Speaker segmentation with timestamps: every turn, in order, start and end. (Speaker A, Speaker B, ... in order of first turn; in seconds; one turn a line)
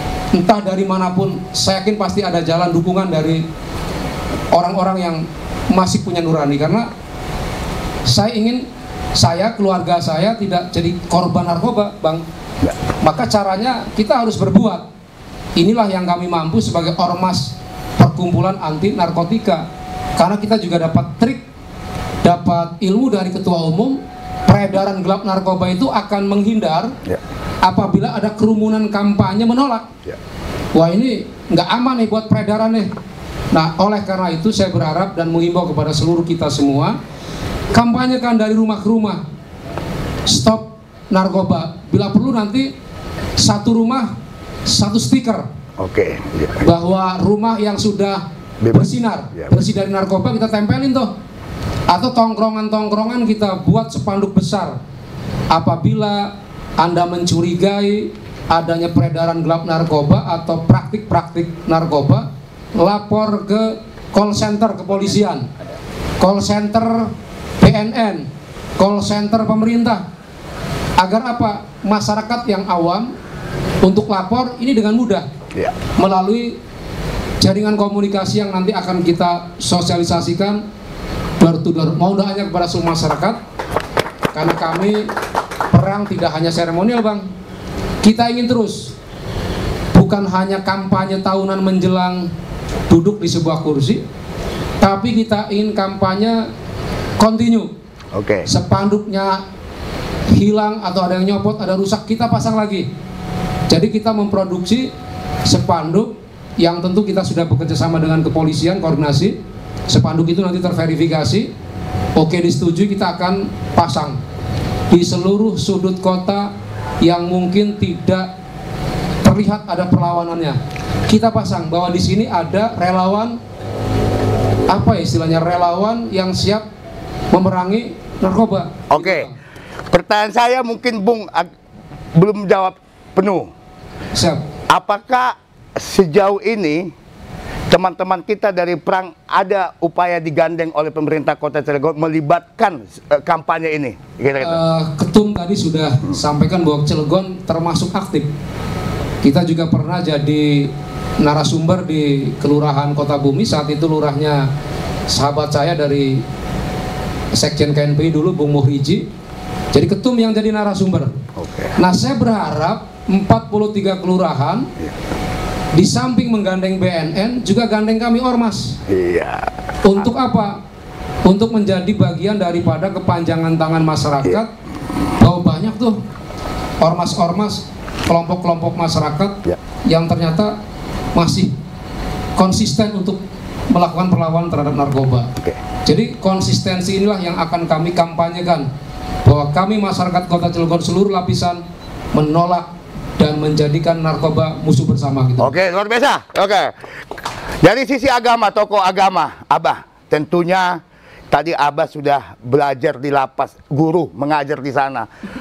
Speaker A: 0.3-3.4
Speaker A: 4.5-6.9
Speaker A: 8.0-12.2
Speaker A: 13.0-14.9
Speaker A: 15.6-21.4
Speaker A: 22.2-26.9
Speaker A: 27.6-29.9
Speaker A: 30.7-32.9
Speaker A: 33.5-37.0
Speaker A: 37.7-39.2
Speaker A: 40.2-42.7
Speaker A: 43.4-44.1
Speaker A: 44.7-45.5
Speaker B: 45.8-46.6
Speaker A: 46.6-51.1
Speaker B: 48.6-49.5
Speaker A: 51.9-54.8
Speaker A: 55.5-65.5
Speaker A: 66.2-70.1
Speaker A: 71.0-73.1
Speaker A: 73.8-75.3
Speaker A: 76.0-76.6
Speaker A: 77.4-80.6
Speaker A: 81.4-83.4
Speaker A: 84.3-85.1
Speaker A: 85.7-87.3
Speaker A: 88.0-88.9
Speaker A: 89.9-92.3
Speaker A: 92.9-94.0
Speaker A: 94.8-96.5
Speaker A: 97.2-97.7
Speaker B: 98.1-98.5
Speaker A: 98.5-99.4
Speaker A: 100.3-102.9
Speaker A: 103.7-104.9
Speaker A: 105.4-109.4
Speaker A: 109.9-111.5
Speaker A: 112.2-114.2
Speaker A: 114.9-118.3
Speaker A: 119.2-123.4
Speaker A: 124.7-126.7
Speaker A: 127.3-129.3
Speaker B: 128.9-129.3
Speaker B: 129.9-131.5
Speaker B: 132.2-133.5
Speaker A: 134.1-134.4
Speaker B: 134.7-136.9
Speaker B: 137.7-144.6
Speaker A: 144.4-148.3
Speaker A: 149.2-154.5
Speaker A: 155.1-156.2
Speaker A: 157.3-159.1
Speaker A: 159.7-161.1
Speaker B: 161.3-161.8
Speaker A: 161.8-164.7
Speaker A: 165.7-168.8
Speaker B: 168.9-170.0
Speaker A: 169.8-170.6
Speaker A: 171.2-174.5
Speaker A: 175.2-176.0
Speaker A: 176.8-180.5
Speaker A: 181.1-181.5
Speaker A: 182.3-185.3
Speaker A: 185.8-188.7
Speaker A: 189.2-191.6
Speaker A: 192.1-195.5
Speaker B: 195.4-196.7
Speaker B: 197.6-205.1